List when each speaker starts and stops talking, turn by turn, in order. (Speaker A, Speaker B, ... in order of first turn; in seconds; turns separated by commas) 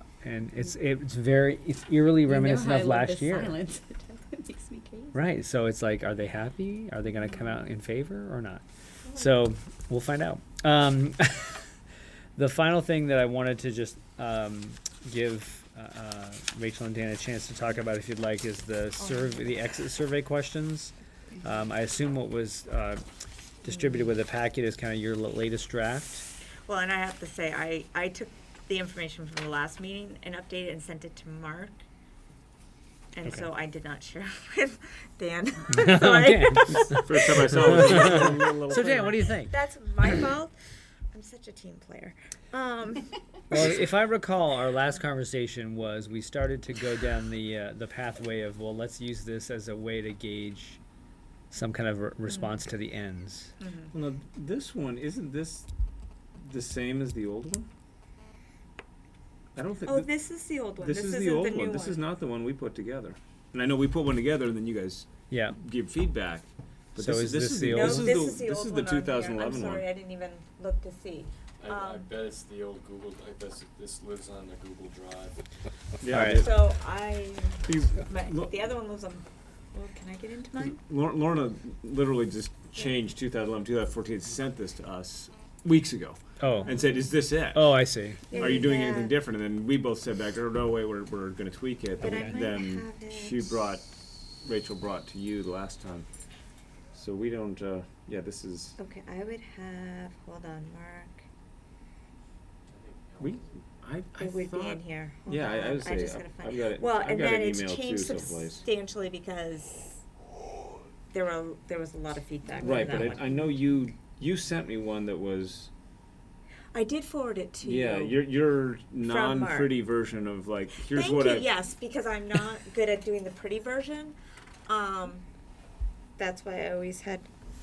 Speaker A: 0.2-3.5, Speaker B: 2.2-5.2, Speaker A: 5.1-8.6, Speaker A: 9.1-11.7, Speaker A: 12.3-23.0, Speaker C: 19.0-19.3, Speaker A: 23.6-26.2, Speaker C: 26.7-31.8, Speaker C: 33.1-38.3, Speaker A: 35.7-40.1, Speaker D: 37.0-39.2, Speaker C: 39.5-40.5, Speaker C: 41.1-43.6, Speaker A: 43.5-50.8, Speaker A: 51.5-53.5, Speaker C: 53.6-53.9, Speaker D: 53.9-55.6, Speaker D: 56.4-57.7, Speaker D: 59.5-60.1, Speaker C: 59.9-62.0, Speaker D: 60.8-69.8, Speaker A: 65.3-65.6, Speaker A: 67.0-68.1, Speaker C: 67.7-72.1, Speaker E: 71.6-75.4, Speaker D: 76.0-76.6, Speaker A: 76.1-76.5, Speaker C: 76.4-80.8, Speaker D: 77.7-78.6, Speaker D: 80.6-96.0, Speaker A: 86.4-86.7, Speaker C: 86.6-87.1, Speaker A: 87.5-88.3, Speaker C: 88.3-89.1, Speaker C: 92.0-93.6, Speaker A: 92.0-92.4, Speaker D: 96.9-98.8, Speaker C: 98.8-101.2, Speaker E: 102.7-103.5, Speaker D: 103.2-108.6, Speaker C: 104.2-110.0, Speaker C: 111.1-113.3, Speaker D: 112.6-115.7, Speaker C: 116.7-118.2, Speaker D: 117.6-121.5, Speaker C: 119.0-119.7, Speaker C: 120.8-124.1, Speaker C: 124.7-125.2, Speaker C: 126.2-127.3